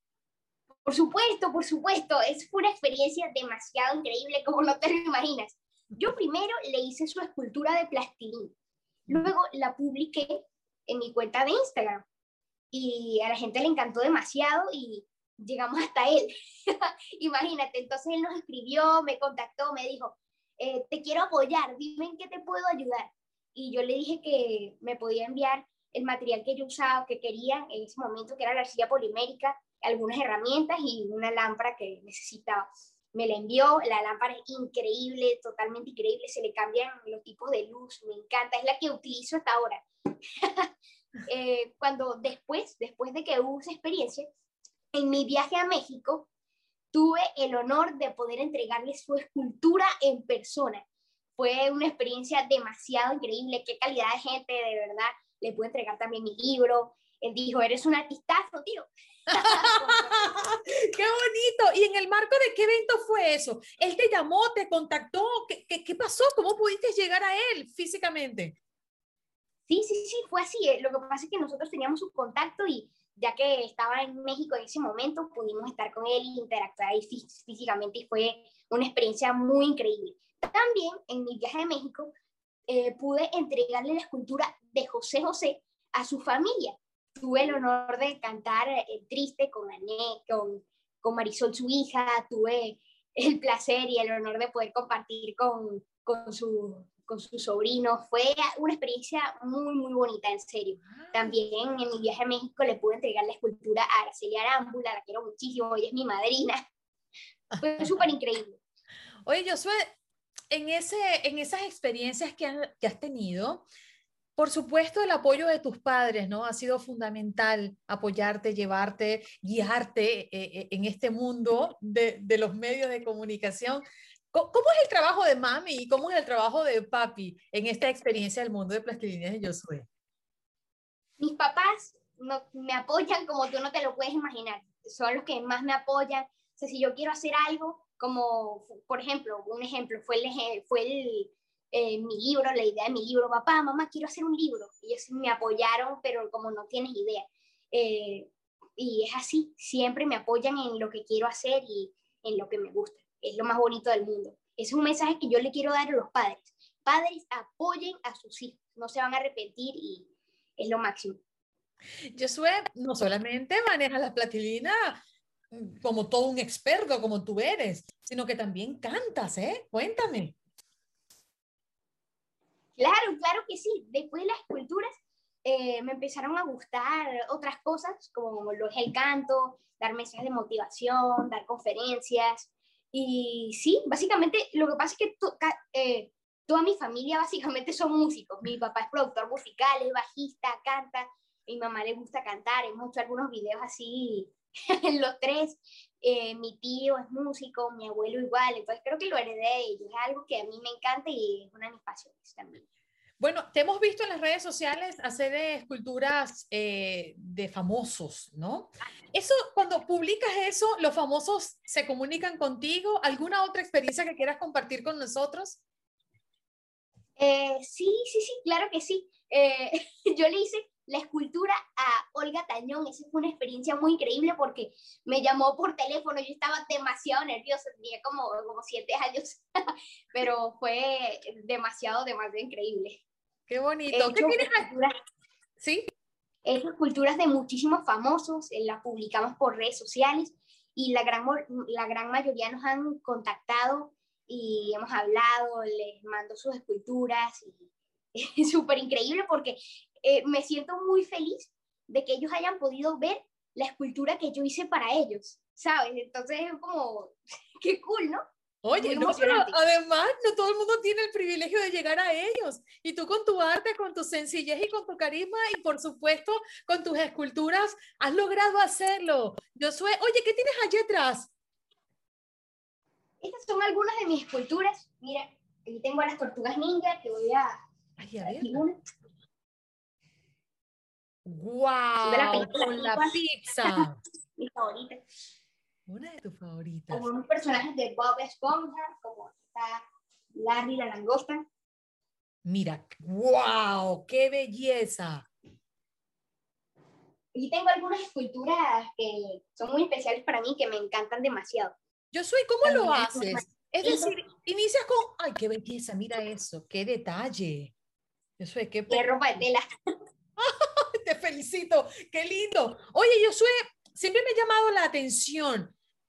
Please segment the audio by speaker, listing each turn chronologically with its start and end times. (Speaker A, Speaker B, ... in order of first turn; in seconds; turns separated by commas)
Speaker A: 0.9-8.5, Speaker A: 9.1-12.1, Speaker A: 12.7-39.8, Speaker A: 40.4-40.7, Speaker A: 41.3-44.3, Speaker A: 44.9-46.3, Speaker A: 46.9-50.8, Speaker A: 51.4-60.3, Speaker B: 59.3-68.6, Speaker A: 69.7-82.1, Speaker A: 82.7-106.6, Speaker B: 100.8-101.4, Speaker B: 107.5-108.1, Speaker A: 107.6-108.6, Speaker B: 109.2-109.8, Speaker B: 110.5-113.7, Speaker B: 114.4-129.9, Speaker A: 131.2-160.1, Speaker A: 160.6-161.2, Speaker B: 162.1-165.0, Speaker B: 165.5-170.4, Speaker A: 172.8-174.9, Speaker A: 175.4-202.7, Speaker B: 203.2-215.6, Speaker A: 217.2-229.4, Speaker A: 230.1-233.0, Speaker B: 233.5-234.7, Speaker A: 233.9-234.9, Speaker B: 235.6-235.9, Speaker A: 236.5-258.2, Speaker B: 258.6-271.3, Speaker A: 258.8-259.6, Speaker A: 273.2-277.5, Speaker B: 278.0-278.6, Speaker A: 278.2-278.8, Speaker B: 281.3-284.0, Speaker A: 282.1-283.8, Speaker A: 284.4-285.0, Speaker B: 285.9-287.1, Speaker A: 286.9-289.8, Speaker A: 290.4-291.5, Speaker B: 292.4-295.3, Speaker A: 297.3-301.8, Speaker B: 302.1-307.7, Speaker A: 302.6-304.1, Speaker B: 308.4-309.5, Speaker A: 308.9-309.6, Speaker B: 310.4-315.7